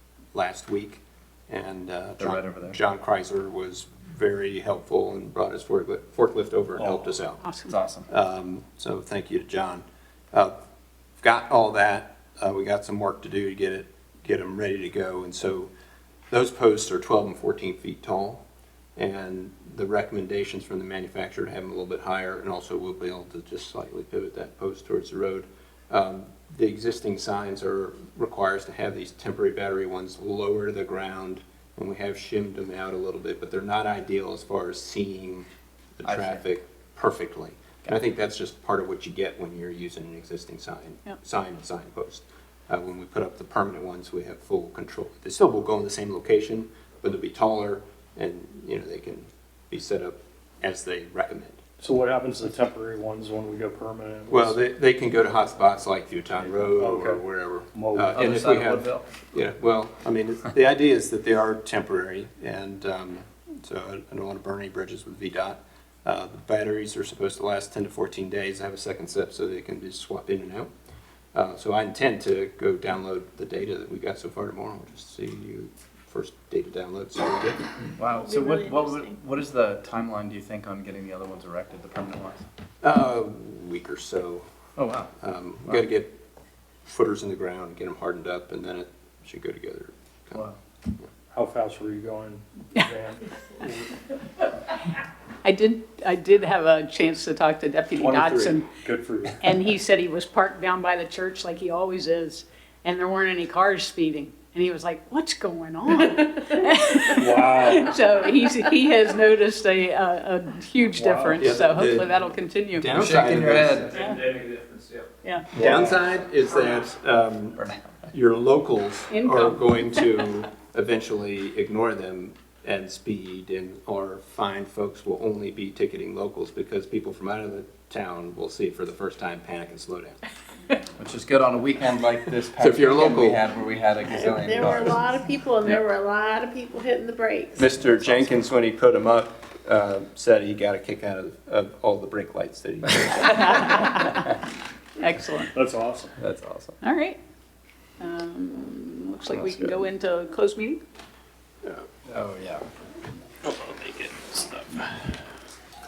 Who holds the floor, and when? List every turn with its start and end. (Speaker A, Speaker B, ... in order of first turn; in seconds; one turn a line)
Speaker A: 0.3-7.4
Speaker B: 2.2-2.8
Speaker B: 6.8-7.0
Speaker C: 7.4-7.7
Speaker B: 7.7-8.1
Speaker A: 8.1-10.6
Speaker A: 11.2-15.7
Speaker A: 16.3-18.4
Speaker A: 19.0-35.5
Speaker A: 36.0-51.6
Speaker B: 36.0-36.4
Speaker D: 51.8-54.6
Speaker A: 54.3-70.7
Speaker D: 56.6-57.2
Speaker D: 57.7-58.2
Speaker B: 58.1-59.1
Speaker A: 71.3-77.6
Speaker B: 78.0-82.4
Speaker E: 78.1-79.1
Speaker A: 82.8-84.5
Speaker B: 84.8-85.1
Speaker A: 85.2-86.2
Speaker A: 86.8-90.4
Speaker D: 91.3-94.0
Speaker C: 95.4-98.7
Speaker D: 98.0-99.6
Speaker C: 99.4-112.9
Speaker D: 107.2-108.0
Speaker D: 111.0-111.5
Speaker A: 111.4-112.1
Speaker A: 112.7-113.9
Speaker B: 112.9-115.1
Speaker A: 115.5-130.2
Speaker D: 115.6-115.9
Speaker C: 119.1-119.9
Speaker B: 131.0-135.1
Speaker A: 132.6-133.4
Speaker E: 134.1-137.6
Speaker A: 137.6-144.0
Speaker B: 137.8-138.3
Speaker C: 143.2-144.4
Speaker C: 145.0-145.5
Speaker D: 145.5-146.2
Speaker B: 146.2-146.8
Speaker C: 146.8-147.2
Speaker C: 148.0-150.8
Speaker B: 152.1-152.6
Speaker A: 153.8-154.3